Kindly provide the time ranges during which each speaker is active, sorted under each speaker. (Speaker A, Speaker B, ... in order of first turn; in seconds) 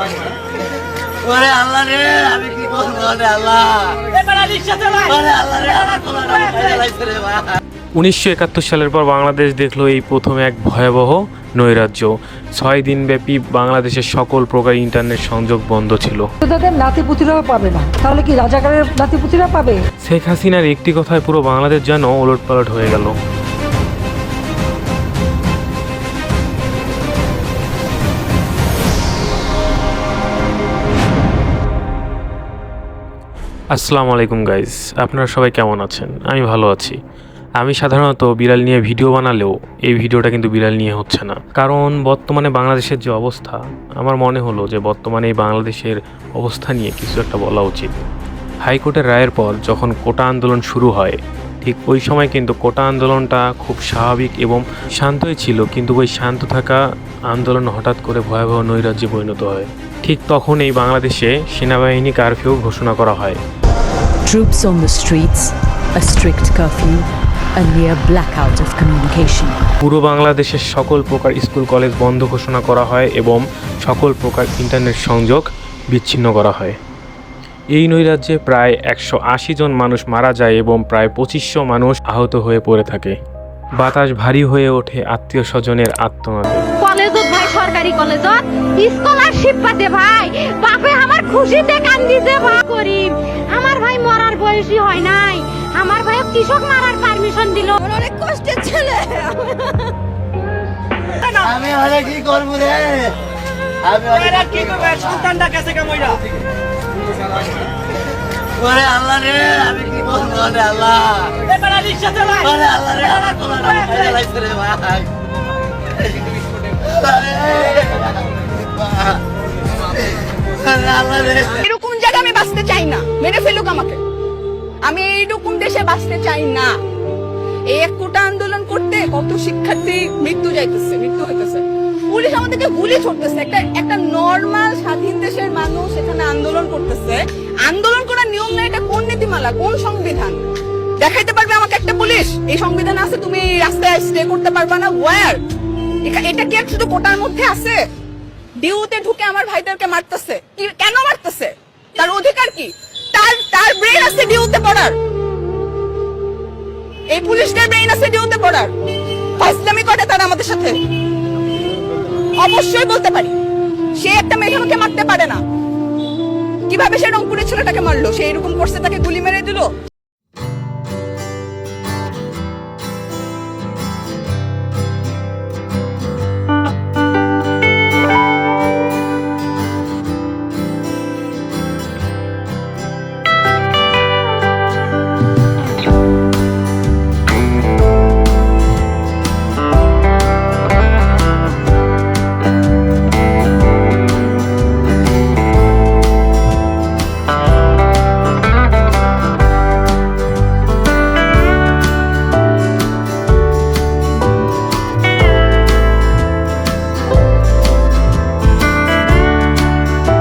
Speaker A: 1.2-4.0, 5.1-7.3, 101.6-103.1, 103.9-104.2, 108.6-111.3, 112.5-115.0, 116.9-118.0, 120.8-121.4
Speaker B: 8.0-16.3, 20.0-23.1, 33.7-37.0, 37.6-48.0, 48.6-63.4, 69.8-76.8, 77.7-83.2, 83.8-86.7
Speaker C: 16.4-19.8
Speaker D: 64.2-69.6
Speaker E: 86.8-97.8
Speaker F: 97.8-99.9, 101.2-101.5, 121.4-124.0, 124.8-126.8, 127.7-140.4, 141.0-145.4, 146.0-147.8, 148.6-155.0, 157.1-158.7, 159.4-160.8, 162.4-163.3, 164.0-165.4, 166.7-169.7